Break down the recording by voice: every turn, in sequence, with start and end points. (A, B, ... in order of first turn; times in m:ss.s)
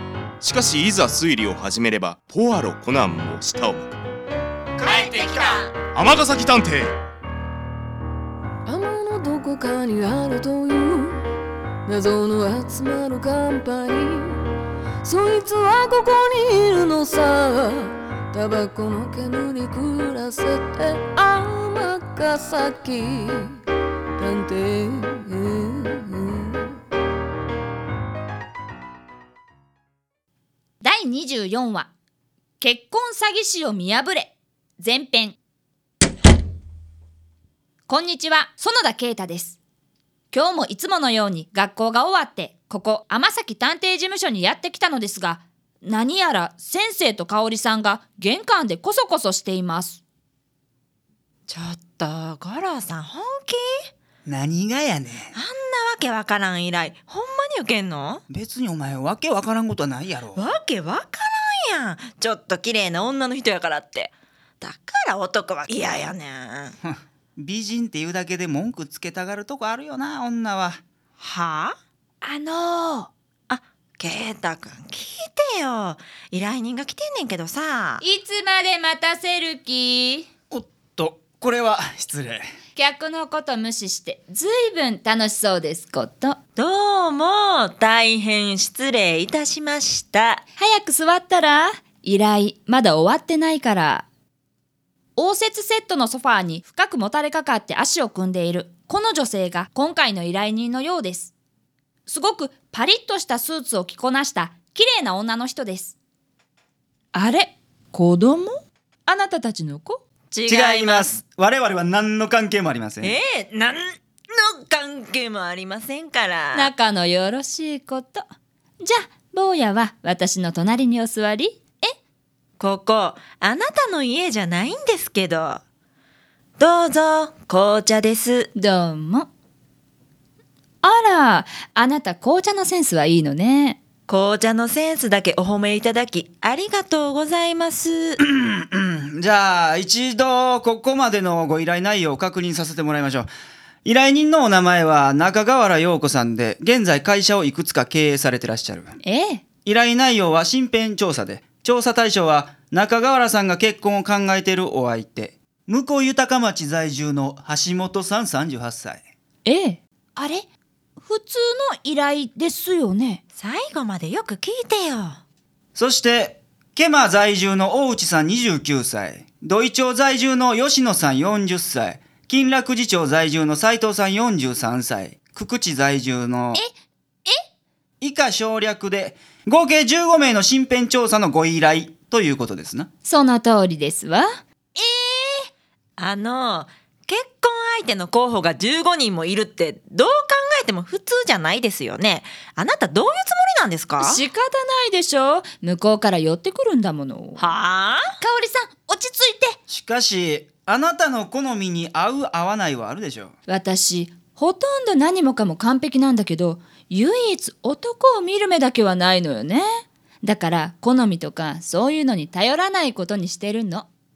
0:00.4-0:03.9 A
0:04.9-0:05.7 B
0:05.8-0:06.9 A
0:08.6-0:11.2 C
0:11.9-0:14.4 C
0:15.0-0:23.5 C
0:24.2-0:26.6 C
0:30.8-0:31.9 D
0:32.6-0:35.4 D
0:37.9-0:39.6 D
0:40.3-0:50.0 D
0:51.5-0:53.9 B
0:54.2-0:55.3 E
0:55.3-0:58.2 B
0:58.3-1:00.4 E
1:00.3-1:06.7 B
1:06.8-1:10.8 E
1:11.2-1:11.8 B
1:12.2-1:13.1 D
1:13.5-1:18.0 B
1:18.0-1:20.3 D
1:20.5-1:22.5 E
1:22.8-1:26.4 D
1:26.6-1:30.4 B
1:30.6-1:34.0 D
1:35.2-1:41.3 D
1:42.0-1:45.9 D
1:47.1-1:50.0 D
1:50.3-1:51.2 B
1:50.5-1:53.1 E
1:53.0-1:56.7 B
1:56.5-1:58.2 D
1:58.8-2:01.9 D
2:02.6-2:05.6 B
2:06.6-2:08.5 B
2:08.5-2:09.3 D
2:10.8-2:13.8 D
2:14.1-2:18.2 B
2:18.2-2:23.3 E
2:23.8-2:28.9 E
2:29.0-2:29.4 D
2:29.6-2:39.0 E
2:39.4-2:40.4 D
2:41.0-2:43.2 D
2:43.3-2:45.2 B
2:45.7-2:56.6 E
2:58.0-3:02.9 E
3:03.0-3:05.4 D
3:06.0-3:14.2 B
3:14.0-3:17.4 D
3:17.4-3:18.1 B
3:18.2-3:19.5 D
3:19.7-3:23.3 E
3:23.5-3:33.9 D